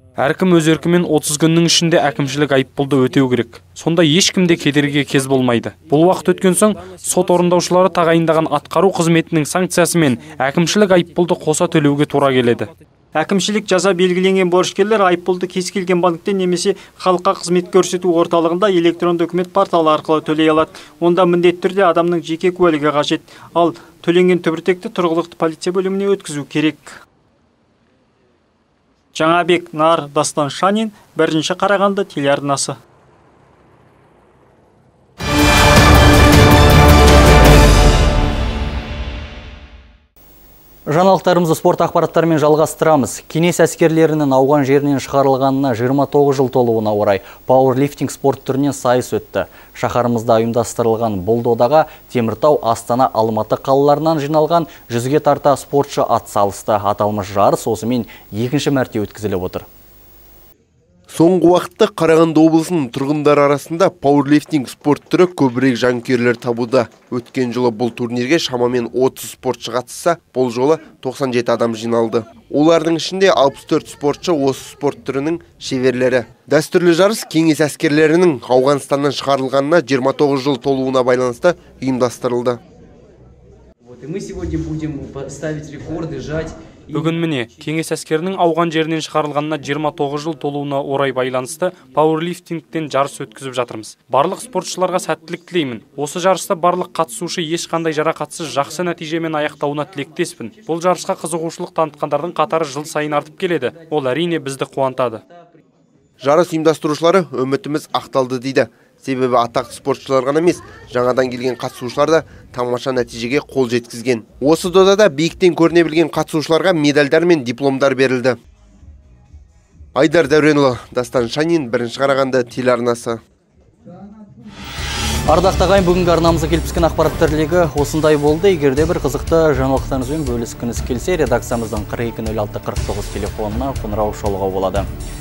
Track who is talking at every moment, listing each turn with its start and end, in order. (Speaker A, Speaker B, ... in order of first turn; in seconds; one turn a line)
Speaker A: 0.2-12.7
Speaker B: 13.1-27.0
Speaker B: 29.1-32.8
Speaker C: 40.9-59.6
Speaker D: 61.1-82.6
Speaker E: 84.0-86.4
Speaker A: 86.9-105.2
Speaker D: 106.2-118.4
Speaker D: 119.9-123.2
Speaker C: 125.3-134.9